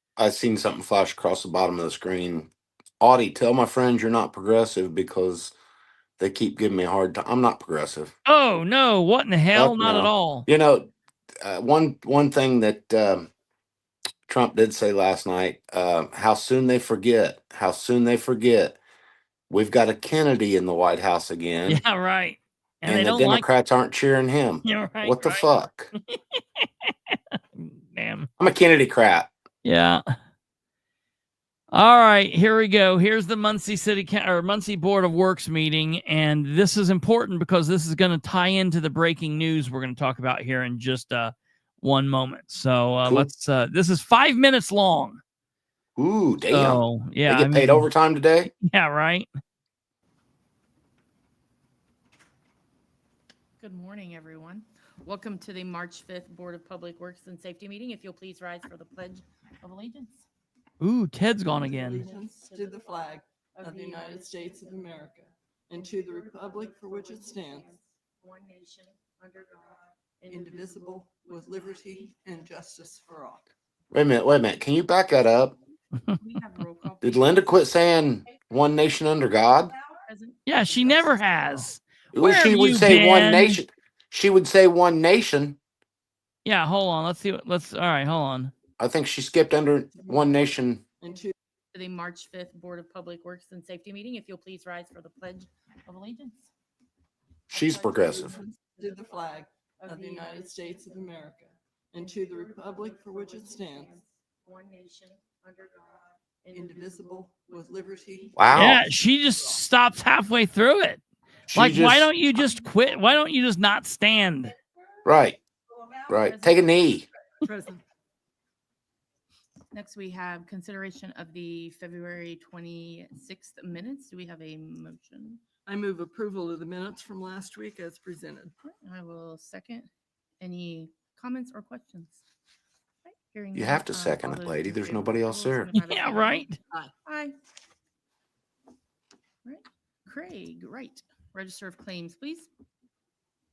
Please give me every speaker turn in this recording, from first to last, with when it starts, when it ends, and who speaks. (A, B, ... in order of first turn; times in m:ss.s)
0:00.2-0:05.5 A
0:06.2-0:08.1 A
0:08.2-0:10.4 B
0:09.5-0:10.9 A
0:11.4-0:13.3 A
0:14.3-0:18.8 A
0:19.5-0:21.8 A
0:21.7-0:23.4 B
0:22.8-0:25.9 A
0:24.6-0:25.4 B
0:26.0-0:28.3 B
0:28.4-0:29.3 A
0:29.6-0:30.0 B
0:31.7-0:45.2 B
0:43.0-0:43.3 A
0:46.0-0:48.5 A
0:46.5-0:47.9 B
0:48.5-0:49.3 B
0:53.6-1:00.2 C
1:00.8-1:02.0 B
1:01.6-1:07.7 D
1:01.7-1:05.1 C
1:05.7-1:12.1 C
1:10.3-1:13.4 D
1:13.9-1:15.6 A
1:16.2-1:17.6 C
1:17.0-1:19.7 A
1:20.0-1:21.7 C
1:20.4-1:23.6 B
1:22.1-1:25.6 A
1:26.4-1:28.5 B
1:28.8-1:30.8 A
1:31.0-1:31.3 D
1:31.7-1:36.5 C
1:37.5-1:38.3 A
1:37.5-1:41.1 C
1:38.0-1:44.0 D
1:41.9-1:48.8 C
1:46.5-1:48.4 D
1:48.4-1:48.8 A
1:48.5-1:51.0 B
1:51.5-1:52.1 A
1:51.5-1:54.5 B
1:55.0-1:55.4 A
1:56.1-1:57.0 A
1:56.2-1:57.0 C
1:57.4-1:57.8 D
1:59.7-2:05.4 C
2:05.6-2:08.5 D
2:08.6-2:09.9 C
2:10.4-2:12.2 C
2:13.0-2:16.5 C
2:13.5-2:15.7 A
2:15.8-2:16.6 B
2:17.0-2:17.3 C
2:19.4-2:22.5 C